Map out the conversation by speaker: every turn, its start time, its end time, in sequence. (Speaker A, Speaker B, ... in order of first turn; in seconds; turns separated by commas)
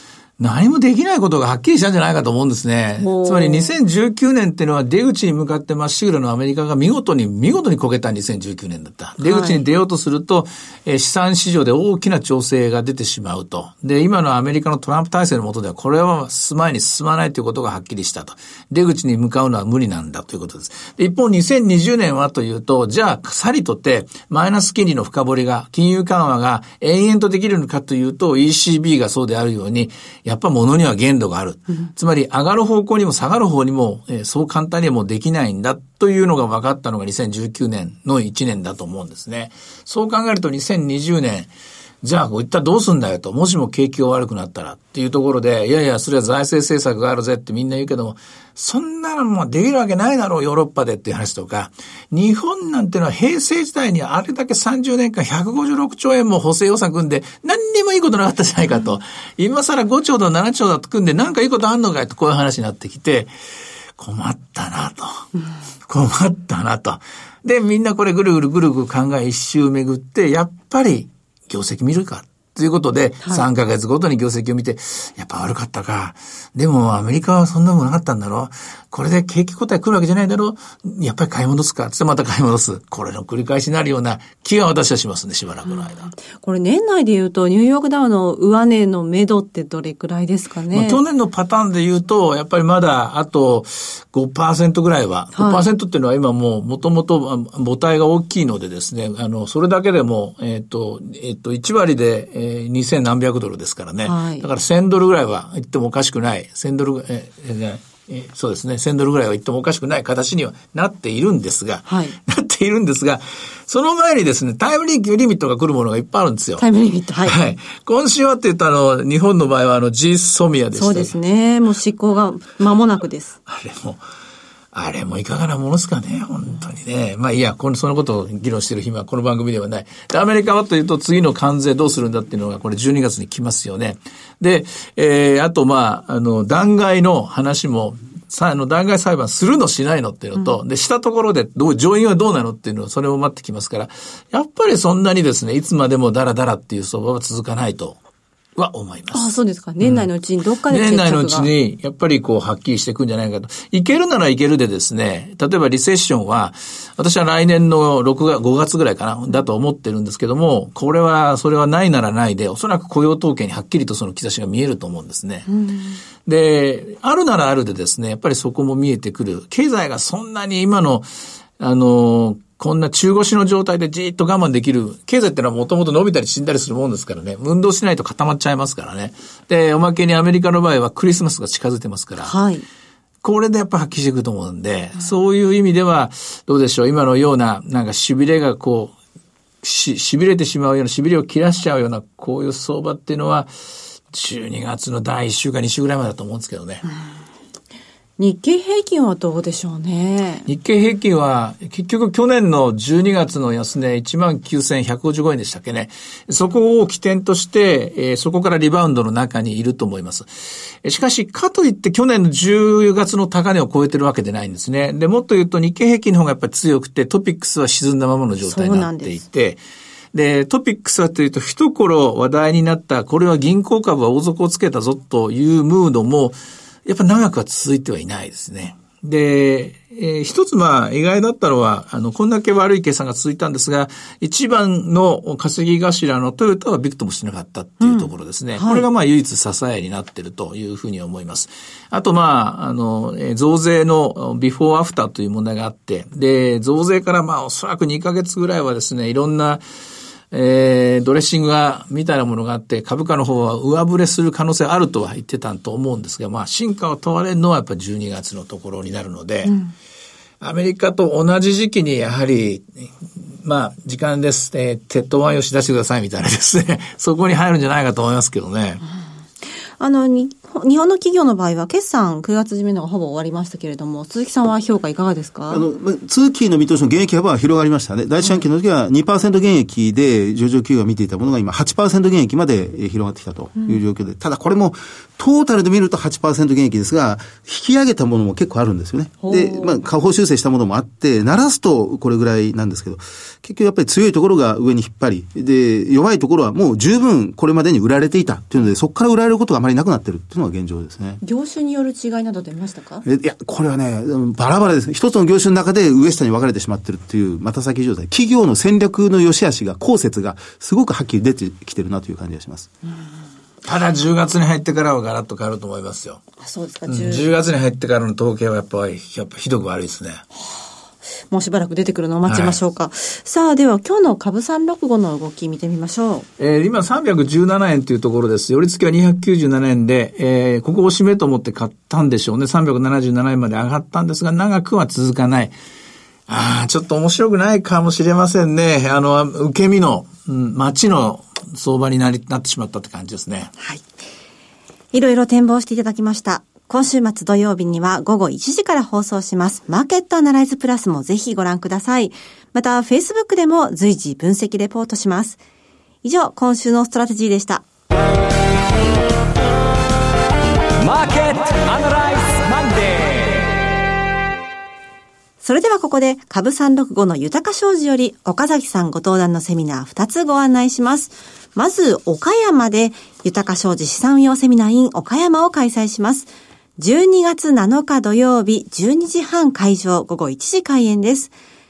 Speaker A: 0.4-41.5, Speaker B: 3.0-3.7, Speaker B: 9.2-9.6, Speaker A: 42.0-63.3, Speaker A: 64.0-65.3, Speaker A: 65.9-86.1, Speaker B: 85.7-91.0, Speaker A: 90.7-116.7, Speaker B: 95.3-95.6, Speaker B: 104.1-104.5, Speaker B: 111.9-112.2, Speaker B: 116.6-117.4, Speaker A: 117.2-121.2, Speaker B: 120.8-123.4, Speaker A: 123.5-124.0, Speaker A: 124.7-148.0, Speaker A: 148.6-150.1, Speaker B: 149.1-151.5, Speaker A: 150.7-165.5, Speaker B: 165.5-166.0, Speaker A: 166.2-171.1, Speaker A: 171.6-182.3, Speaker B: 182.2-182.7, Speaker A: 183.2-188.9, Speaker A: 189.6-193.5, Speaker A: 194.1-196.8, Speaker B: 198.2-200.5, Speaker A: 200.5-210.3, Speaker A: 210.8-219.6, Speaker B: 218.4-219.2, Speaker A: 220.1-249.6, Speaker B: 237.8-238.9, Speaker A: 250.3-259.5, Speaker B: 259.5-259.7, Speaker A: 260.4-262.9, Speaker A: 263.4-268.8, Speaker B: 269.8-275.6, Speaker C: 275.5-301.2, Speaker B: 289.2-289.8, Speaker B: 301.2-303.1, Speaker C: 303.1-312.7, Speaker A: 313.6-316.2, Speaker B: 316.4-317.3, Speaker A: 316.9-320.2, Speaker B: 321.3-326.3, Speaker A: 322.3-322.6, Speaker A: 326.4-335.5, Speaker A: 336.3-343.5, Speaker B: 343.6-343.9, Speaker B: 344.9-355.4, Speaker B: 356.0-357.6, Speaker D: 360.8-363.6, Speaker B: 365.4-381.3